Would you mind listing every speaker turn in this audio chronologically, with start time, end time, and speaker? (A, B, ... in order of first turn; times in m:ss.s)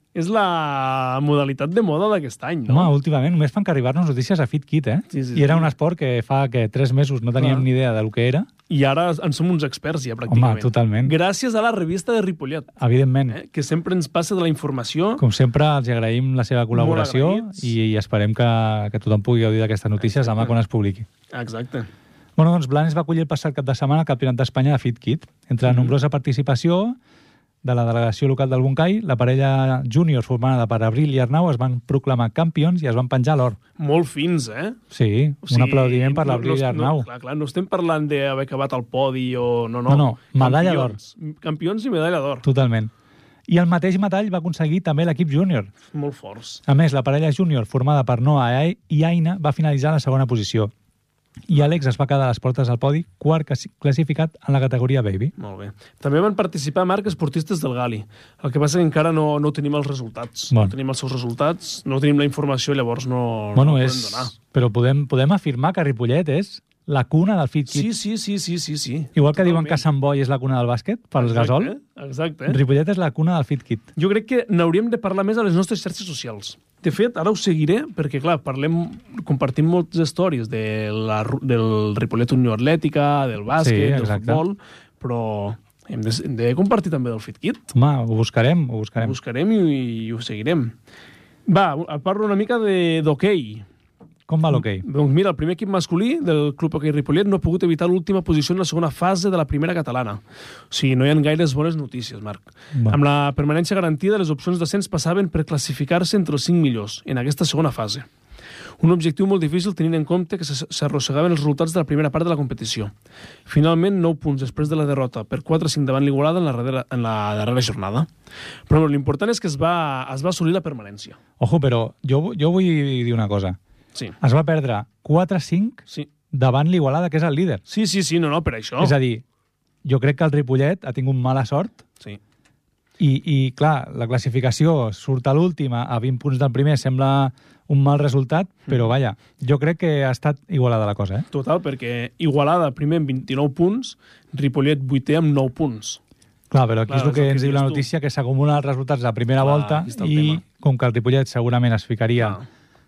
0:00.1-0:02.9 A
0:02.7-0:08.5 B
0:05.1-0:05.7 A
0:07.4-0:07.7 A
0:08.7-0:12.7 A
0:10.3-0:11.1 B
0:12.8-0:13.4 B
0:13.3-0:15.2 A
0:15.2-0:21.1 B
0:16.7-0:17.7 A
0:20.0-0:20.5 A
0:21.3-0:21.9 A
0:22.4-0:27.0 B
0:25.6-0:26.0 A
0:27.6-0:33.6 B
0:33.8-0:34.8 A
0:34.9-0:37.1 B
0:35.4-0:42.5 A
0:39.9-0:41.0 B
0:42.4-0:42.9 B
0:43.5-0:45.7 B
0:45.9-0:46.6 A
0:46.7-0:50.7 B
0:51.5-0:55.3 B
0:55.4-1:04.3 A
1:03.6-1:07.9 B
1:07.7-1:09.8 A
1:09.2-1:11.8 B
1:11.2-1:12.6 A
1:12.5-1:13.9 B
1:14.0-1:27.7 A
1:23.5-1:24.4 B
1:27.7-1:29.2 B
1:29.0-1:30.8 A
1:31.5-1:33.7 A
1:34.3-1:34.8 B
1:34.5-1:48.1 A
1:48.8-1:52.9 A
1:53.5-1:58.1 A
1:58.7-2:01.2 A
2:01.4-2:03.6 B
2:04.2-2:07.6 B
2:07.7-2:09.0 A
2:08.8-2:09.2 B
2:09.8-2:11.8 B
2:13.0-2:21.3 B
2:21.3-2:26.0 A
2:26.5-2:32.4 B
2:26.9-2:27.9 A
2:29.4-2:30.4 A
2:32.2-2:32.4 A